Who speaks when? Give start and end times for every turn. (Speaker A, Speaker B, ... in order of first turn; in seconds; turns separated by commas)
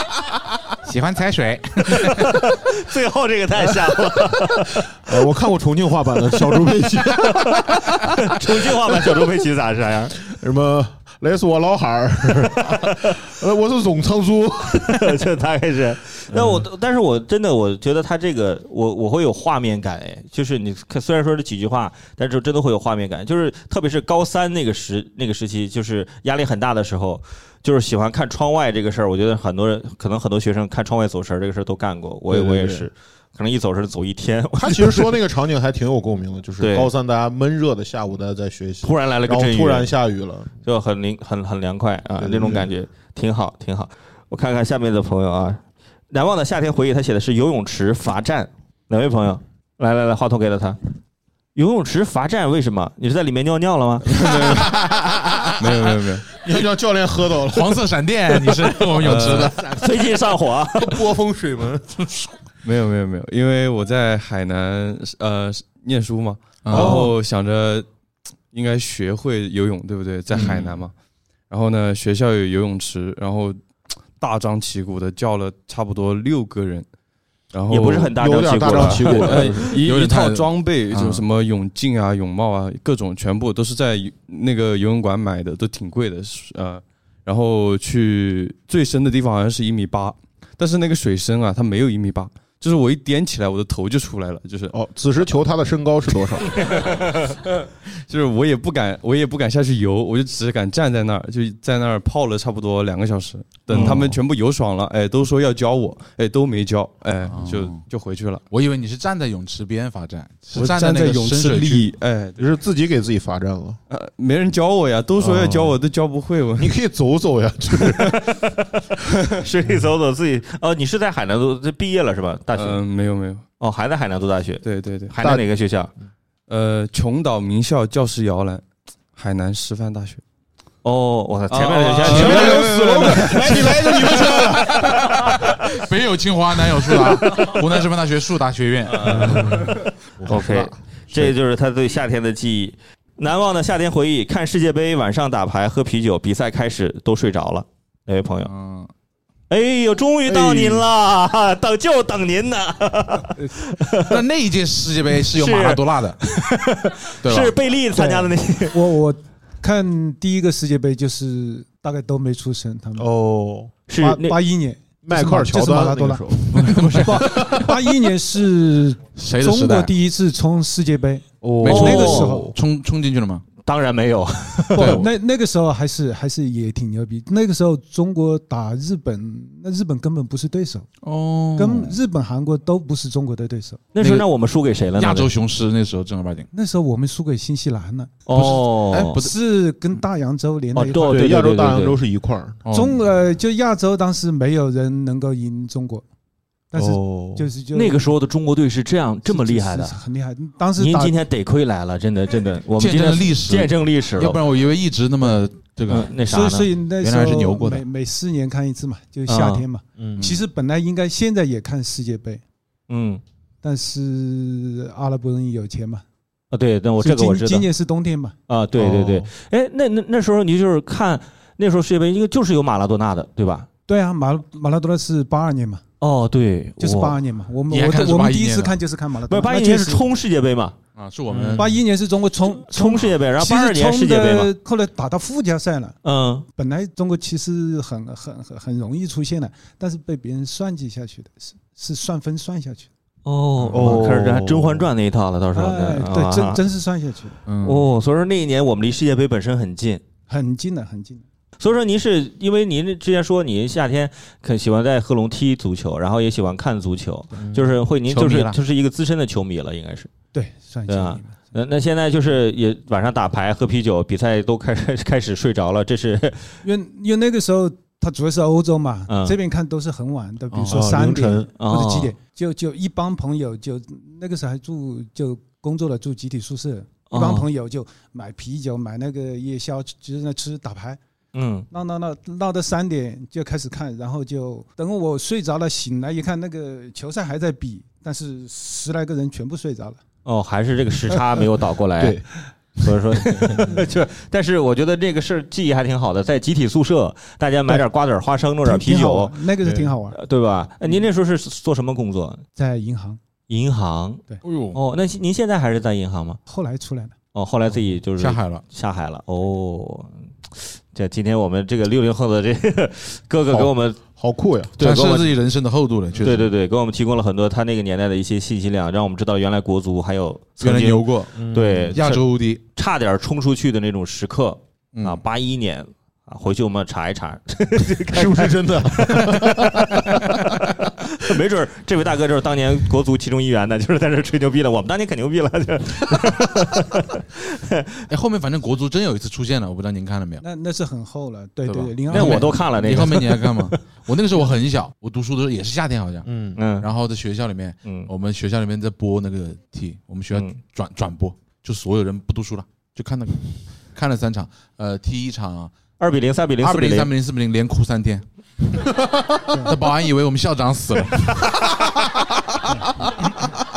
Speaker A: 0.8-2.4, Speaker B: 1.9-4.8, Speaker C: 5.0-8.7, Speaker B: 7.9-10.2, Speaker C: 10.3-15.2, Speaker B: 14.9-35.2, Speaker C: 16.3-16.6, Speaker C: 32.3-32.9, Speaker C: 34.6-40.5, Speaker B: 36.6-36.9, Speaker B: 38.8-39.9, Speaker B: 40.6-50.8, Speaker C: 42.2-42.6, Speaker B: 51.5-54.6, Speaker D: 54.0-54.7, Speaker A: 54.2-56.2, Speaker D: 55.6-56.2, Speaker C: 56.3-57.8, Speaker A: 57.5-59.8, Speaker D: 59.0-59.5, Speaker C: 59.2-60.1, Speaker B: 59.7-61.0, Speaker C: 60.8-62.0, Speaker D: 62.6-67.9, Speaker A: 66.6-67.1, Speaker C: 66.7-67.1, Speaker D: 68.5-70.9, Speaker A: 70.3-70.8, Speaker C: 70.3-70.6, Speaker D: 71.5-73.6, Speaker D: 74.2-76.9, Speaker D: 77.5-94.8, Speaker B: 77.7-79.6, Speaker C: 78.2-79.7, Speaker A: 79.8-81.2, Speaker C: 94.7-96.9, Speaker D: 96.6-96.9, Speaker D: 98.1-108.4, Speaker A: 103.7-104.2, Speaker A: 107.2-107.9, Speaker A: 108.5-111.9, Speaker E: 110.5-111.9, Speaker D: 111.6-112.4, Speaker C: 112.4-113.8, Speaker D: 113.9-116.8, Speaker C: 115.2-115.8, Speaker C: 116.6-118.4, Speaker B: 119.4-122.8, Speaker D: 122.5-123.4, Speaker B: 123.6-125.9, Speaker D: 124.6-125.1, Speaker C: 125.2-125.4, Speaker D: 126.5-130.2, Speaker B: 130.8-134.2, Speaker D: 131.5-133.4, Speaker A: 132.0-139.6, Speaker C: 132.0-135.2, Speaker D: 138.9-139.6, Speaker C: 139.0-141.3, Speaker B: 140.3-148.5, Speaker A: 148.4-148.9, Speaker B: 149.5-154.2, Speaker C: 150.2-150.9, Speaker A: 154.0-156.2, Speaker B: 155.2-158.8, Speaker A: 157.2-157.6, Speaker E: 157.9-163.1, Speaker C: 163.0-163.7, Speaker B: 163.9-164.4, Speaker E: 163.9-172.5, Speaker C: 165.0-167.6, Speaker A: 166.5-167.5, Speaker A: 169.2-169.9, Speaker C: 171.4-172.5, Speaker A: 171.6-173.4, Speaker B: 171.6-172.4, Speaker B: 173.6-175.0, Speaker A: 174.7-175.1, Speaker E: 174.8-180.9, Speaker A: 181.0-182.0, Speaker E: 181.6-183.8, Speaker B: 183.9-185.3, Speaker A: 184.0-184.3, Speaker A: 184.9-186.5, Speaker E: 186.5-188.2, Speaker B: 188.3-189.2, Speaker A: 188.3-189.3, Speaker E: 189.1-191.4, Speaker B: 190.7-192.0, Speaker C: 191.1-192.6, Speaker A: 192.6-193.0, Speaker E: 192.7-196.1, Speaker E: 196.7-198.1, Speaker C: 196.7-197.5, Speaker B: 197.7-199.9, Speaker E: 199.2-201.2, Speaker B: 200.8-204.4, Speaker A: 202.8-206.1, Speaker B: 205.9-206.7, Speaker E: 206.3-212.4, Speaker A: 207.0-207.8, Speaker B: 209.3-209.6, Speaker C: 210.0-210.2, Speaker A: 210.2-210.4, Speaker B: 212.9-213.2, Speaker E: 213.6-216.0, Speaker B: 216.5-217.7, Speaker E: 217.0-218.3, Speaker B: 218.5-223.7, Speaker C: 218.8-219.3, Speaker E: 223.9-225.8, Speaker B: 226.0-227.2, Speaker E: 226.8-230.1, Speaker A: 227.7-228.8, Speaker B: 229.3-230.8, Speaker A: 230.9-231.8, Speaker B: 231.3-231.7, Speaker E: 231.6-235.9, Speaker B: 232.7-234.6, Speaker B: 236.0-236.5, Speaker E: 236.6-242.9, Speaker B: 243.2-246.6, Speaker A: 243.6-244.0, Speaker C: 243.7-244.9, Speaker E: 245.5-247.4, Speaker A: 247.4-247.9, Speaker B: 247.6-250.0, Speaker E: 250.3-251.2, Speaker B: 251.6-260.1, Speaker A: 258.1-258.6, Speaker E: 260.3-261.4, Speaker B: 260.9-266.5, Speaker E: 266.6-281.0, Speaker B: 269.1-269.4, Speaker A: 270.5-270.9, Speaker C: 270.7-271.5, Speaker B: 271.6-272.1, Speaker B: 277.1-277.5, Speaker B: 281.3-281.7, Speaker E: 281.7-290.0, Speaker B: 290.2-299.5, Speaker C: 293.3-293.8, Speaker E: 298.6-300.2, Speaker C: 299.6-299.9, Speaker B: 300.1-302.4, Speaker E: 302.6-303.2, Speaker B: 303.5-306.4, Speaker A: 304.4-304.8, Speaker E: 306.5-307.1, Speaker B: 307.3-314.0, Speaker A: 308.2-308.6, Speaker C: 313.5-314.7, Speaker B: 314.8-315.3, Speaker A: 314.8-316.5, Speaker B: 316.2-322.2, Speaker A: 320.6-322.6, Speaker C: 321.4-321.9, Speaker B: 322.7-338.1, Speaker A: 324.9-325.2, Speaker C: 328.1-330.2, Speaker A: 338.1-340.4, Speaker E: 340.4-343.0, Speaker A: 341.6-346.3, Speaker B: 342.1-343.8, Speaker C: 346.2-346.6, Speaker B: 346.6-346.9, Speaker A: 346.8-355.7, Speaker B: 347.8-348.1, Speaker B: 350.3-350.6, Speaker B: 356.0-357.1, Speaker A: 356.6-358.2, Speaker A: 359.6-361.6